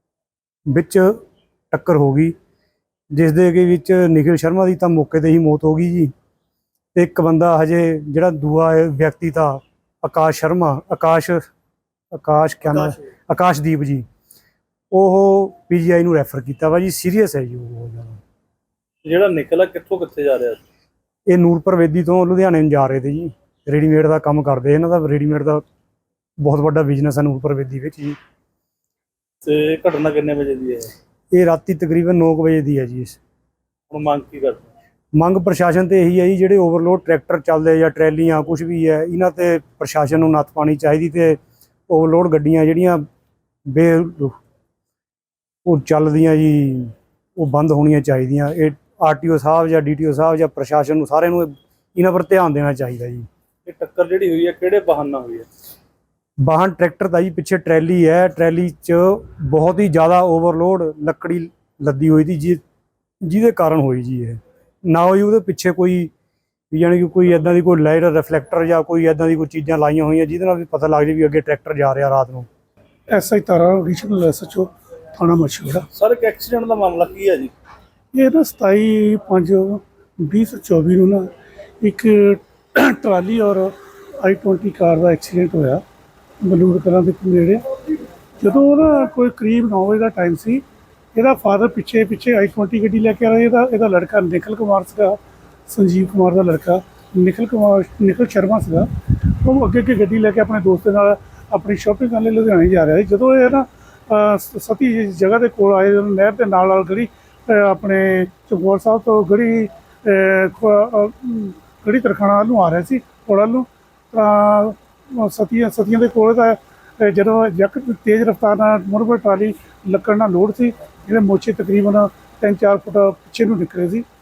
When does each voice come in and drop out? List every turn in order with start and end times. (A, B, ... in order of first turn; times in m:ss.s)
0:00.7-0:02.3 A
0:03.1-0:06.1 A
0:06.9-0:11.4 A
0:12.1-0:14.0 A
0:14.9-0:18.2 A
0:19.0-0:20.6 B
0:21.3-0:25.6 A
0:26.4-0:28.2 A
0:29.4-0:30.9 B
0:31.3-0:33.2 A
0:33.9-0:34.6 B
0:35.1-0:43.0 A
0:43.7-0:44.3 A
0:45.6-0:53.3 A
0:53.6-0:55.5 B
0:56.4-1:02.6 A
1:03.2-1:06.1 A
1:06.7-1:12.5 A
1:13.1-1:15.9 C
1:15.9-1:17.5 B
1:18.1-1:21.3 C
1:21.8-1:25.8 C
1:26.4-1:27.6 C
1:28.4-1:30.6 C
1:31.1-1:35.2 C
1:35.7-2:04.0 C